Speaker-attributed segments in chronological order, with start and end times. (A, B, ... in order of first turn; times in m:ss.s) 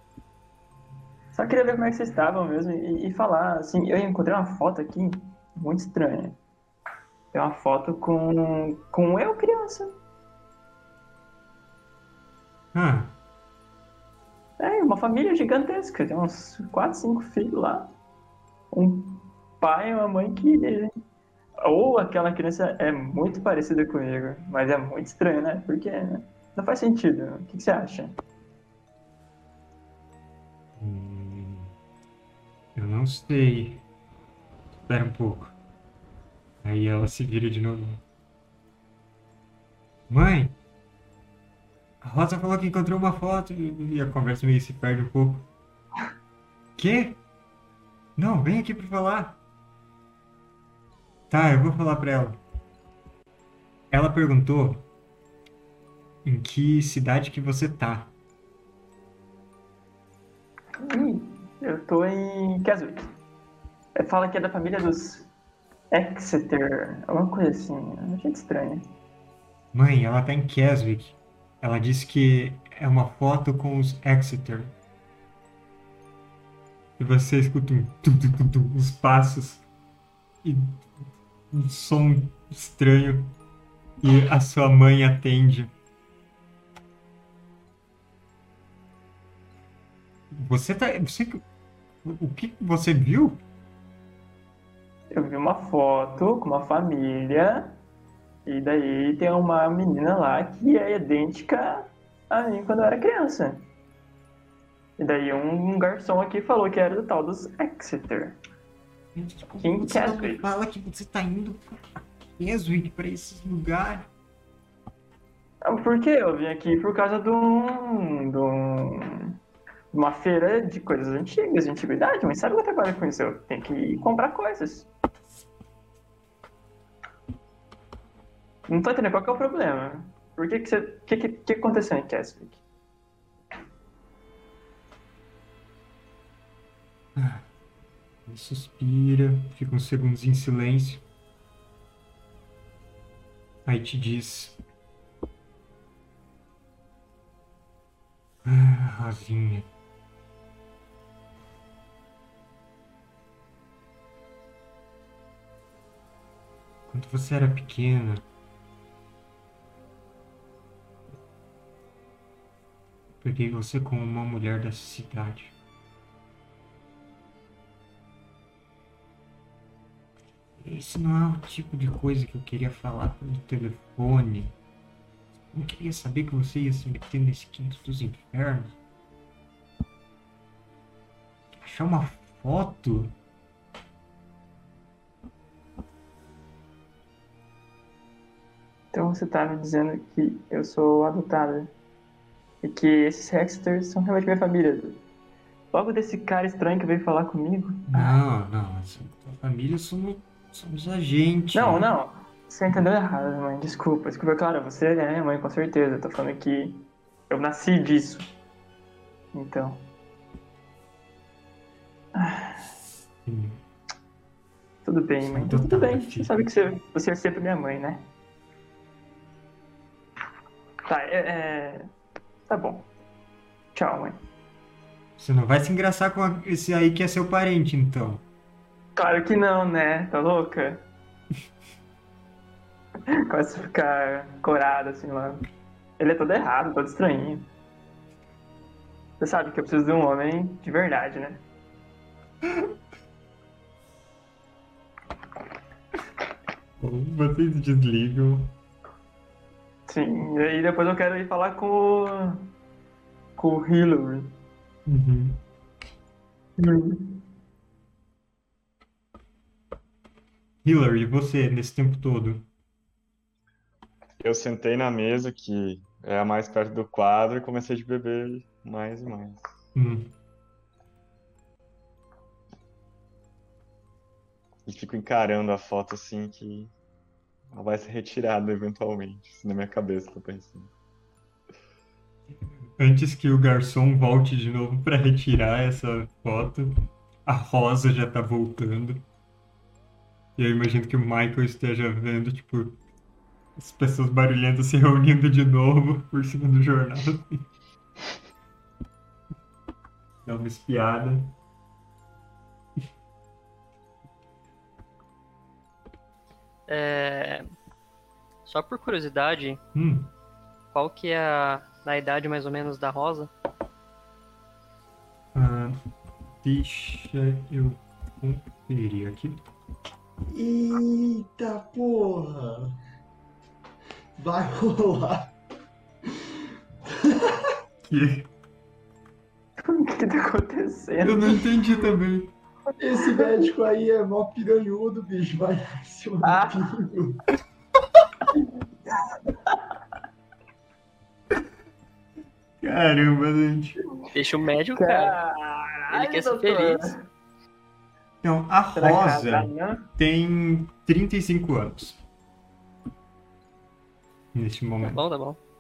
0:01.3-0:06.4 A
0:07.3-0:09.9 A
0:12.7-0:13.2 B
0:14.6-0:17.9 A
0:18.7-0:20.9 A
0:21.6-0:28.2 A
0:30.8-0:31.7 B
0:32.8-0:33.8 B
0:34.8-0:35.6 B
0:36.6-0:38.0 B
0:40.1-0:40.5 B
0:42.0-0:45.5 B
0:46.8-0:47.2 B
0:48.2-0:49.4 B
0:51.3-0:52.4 B
0:53.9-0:54.8 B
0:56.2-0:58.1 B
1:00.8-1:03.1 A
1:03.9-1:05.3 A
1:05.9-1:08.9 A
1:09.7-1:14.7 B
1:17.0-1:19.6 B
1:20.4-1:23.3 B
1:24.0-1:25.7 B
1:30.3-1:31.4 B
1:32.0-1:33.4 B
1:35.1-1:37.8 A
1:38.4-1:43.7 A
1:45.0-1:48.4 A
1:49.1-1:54.1 B
1:49.6-1:50.4 A
1:55.6-1:59.4 A
1:59.9-2:04.9 A
2:08.7-2:12.6 A
2:17.2-2:17.4 B
2:18.3-2:21.0 B
2:23.6-2:24.6 B
2:28.4-2:29.7 B
2:36.9-2:38.2 B
2:43.2-2:45.5 B
2:50.6-2:54.5 B
2:55.5-2:58.8 B
3:01.5-3:03.1 B
3:08.9-3:11.7 A
3:12.6-3:15.0 A
3:15.7-3:18.2 A
3:17.9-3:21.9 B
3:21.5-3:28.3 A
3:29.3-3:29.8 A
3:32.1-3:32.6 A
3:33.1-3:33.6 B
3:34.8-3:38.1 A
3:35.2-3:36.4 B
3:40.9-3:41.9 A
3:42.5-3:42.9 A
3:43.7-3:44.2 A
3:45.2-3:48.2 B
3:49.0-3:50.8 A
3:53.1-3:55.4 A
3:56.0-3:57.5 A
3:59.2-4:01.4 A
4:06.8-4:08.5 B
4:09.9-4:12.5 A
4:13.4-4:14.4 A
4:14.8-4:15.4 B
4:16.6-4:17.2 A
4:20.6-4:22.5 B
4:24.2-4:29.4 C
4:29.7-4:30.1 B
4:34.6-4:36.7 C
4:37.5-4:40.7 C
4:42.8-4:49.0 B
4:50.4-4:52.8 B
4:53.6-4:57.5 B
5:00.2-5:01.3 B
5:06.7-5:07.5 D
5:08.4-5:09.6 D
5:09.7-5:10.1 B
5:10.7-5:13.3 D
5:15.3-5:15.8 B
5:16.4-5:19.4 B
5:20.3-5:22.7 E
5:24.2-5:25.3 E
5:26.9-5:27.4 E
5:27.8-5:28.3 B
5:29.6-5:31.4 A
5:31.0-5:32.3 B
5:32.8-5:37.2 E
5:36.2-5:36.6 A
5:42.6-5:43.8 B
5:44.1-5:45.2 D
5:44.7-5:47.0 A
5:45.9-5:47.0 D
5:48.2-5:52.0 B
5:48.7-5:49.8 A
5:54.3-5:55.0 B
5:54.8-5:55.4 D